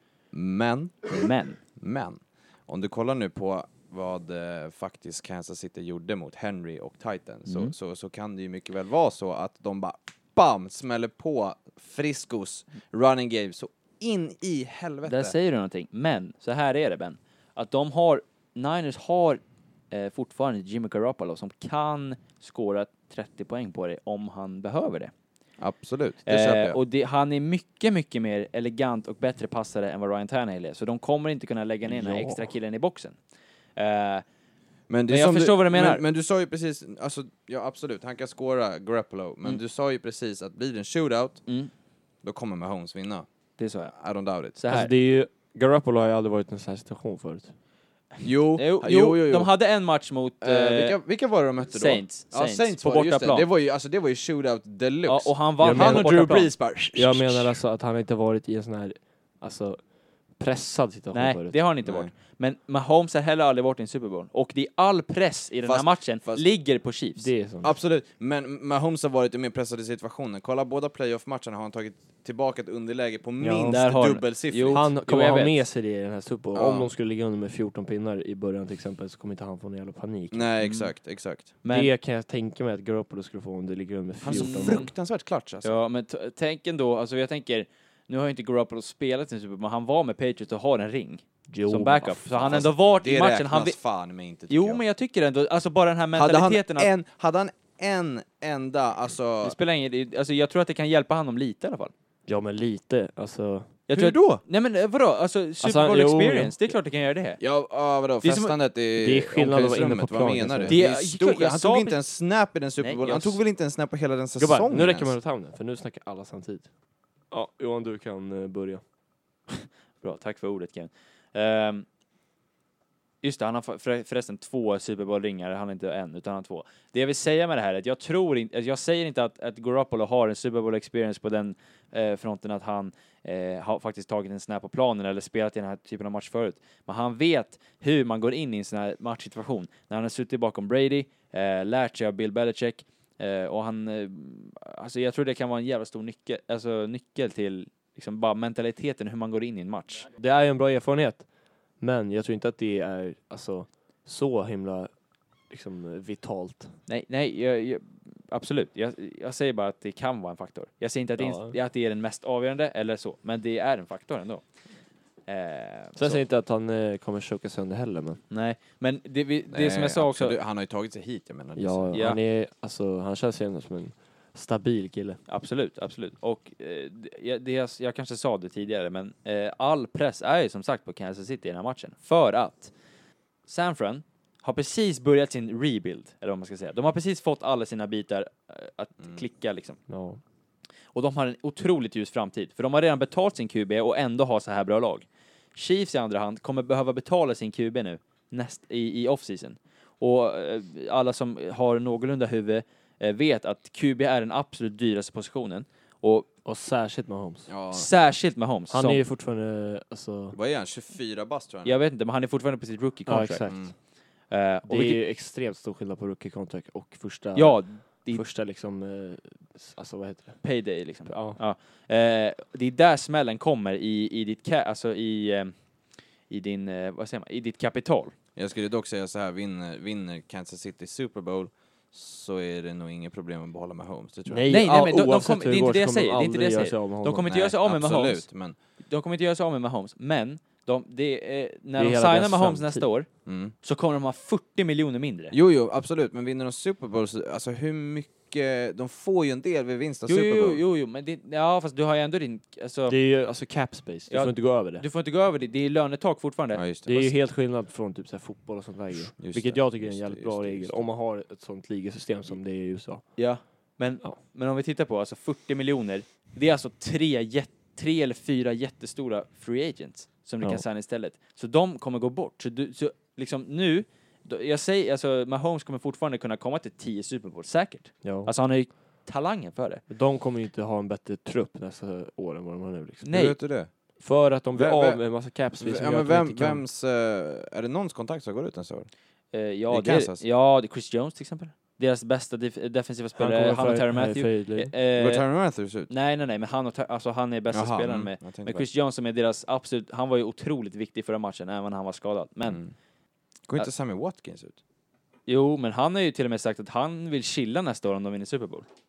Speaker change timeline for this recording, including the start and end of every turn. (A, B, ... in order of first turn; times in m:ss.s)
0:00.3-0:15.3 A
0:01.1-0:01.6 B
0:07.4-0:07.7 B
0:15.0-0:25.1 B
0:25.6-0:26.8 A
0:26.2-0:33.2 B
0:31.9-0:32.5 C
0:33.8-0:34.2 B
0:34.9-0:41.4 A
0:35.1-0:36.0 B
0:42.2-0:43.2 A
0:43.6-0:43.9 B
0:43.9-0:44.6 A
0:44.5-0:44.9 B
0:44.7-0:47.5 C
0:48.2-0:49.5 A
0:48.6-0:51.0 B
0:50.4-0:57.5 A
0:51.7-0:53.5 B
0:55.0-0:56.5 B
0:55.6-0:56.2 C
0:56.9-1:01.6 C
1:01.1-1:07.3 B
1:01.8-1:02.1 A
1:05.6-1:06.4 A
1:07.2-1:07.7 C
1:07.6-1:14.9 A
1:13.4-1:13.8 C
1:13.6-1:15.6 B
1:14.7-1:20.5 C
1:16.5-1:16.9 A
1:20.3-1:21.5 A
1:20.6-1:20.9 B
1:21.6-1:21.9 B
1:21.7-1:24.9 C
1:24.2-1:25.7 A
1:24.3-1:24.9 B
1:25.6-1:33.8 B
1:31.5-1:32.6 C
1:32.4-1:34.8 A
1:34.5-1:36.9 B
1:36.1-1:39.6 A
1:39.4-1:41.9 B
1:42.3-1:43.8 C
1:43.9-1:47.4 B
1:43.9-1:44.4 A
1:45.6-1:46.8 C
1:47.4-1:55.2 A
1:48.2-1:48.5 B
1:49.0-1:50.8 C
1:50.7-1:52.0 B
1:52.8-1:53.4 B
1:54.4-1:56.7 C
1:57.3-1:58.8 C
2:00.0-2:01.8 B
2:03.2-2:30.0 B
2:30.2-2:34.9 C
2:35.5-2:36.8 C
2:36.9-2:44.4 B
2:41.2-2:41.5 C
2:45.2-2:46.2 B
2:46.0-2:48.2 C
2:48.3-2:50.4 B
2:49.5-2:51.9 A
2:51.6-2:55.2 C
2:51.9-2:52.2 B
2:55.3-3:02.7 B
3:03.4-3:09.8 B
3:09.9-3:10.2 C
3:10.9-3:26.3 B
3:26.4-3:27.5 C
3:27.5-3:27.9 A
3:27.7-3:29.0 B
3:28.7-3:30.4 C
3:30.3-3:31.8 A
3:31.6-3:33.7 B
3:33.1-3:33.7 C
3:33.5-3:33.7 A
3:34.3-3:35.0 B
3:34.7-3:41.4 C
3:37.3-3:38.2 B
3:40.4-3:45.6 B
3:46.3-3:48.1 B
3:48.4-3:54.5 A
3:54.3-3:57.4 C
3:54.5-3:58.3 B
3:57.3-3:58.6 A
3:58.8-4:03.1 B
4:01.8-4:02.8 C
4:03.2-4:03.5 A
4:03.6-4:05.3 B
4:05.3-4:10.6 A
4:10.1-4:13.0 B
4:12.9-4:14.8 C
4:14.1-4:16.6 B
4:16.5-4:17.1 A
4:16.9-4:23.4 C
4:19.2-4:20.9 A
4:23.2-4:39.8 B
4:38.0-4:38.3 C
4:39.9-4:43.0 C
4:43.0-4:43.4 B
4:43.0-4:43.7 A
4:44.0-4:46.6 C
4:44.5-4:48.9 A
4:49.3-4:55.3 B
4:49.7-4:50.2 A
4:53.2-4:54.7 C
4:54.9-4:55.9 A
4:55.9-5:02.6 B
4:57.5-4:58.6 A
5:02.4-5:02.7 A
5:03.5-5:04.6 A
5:05.3-5:08.6 B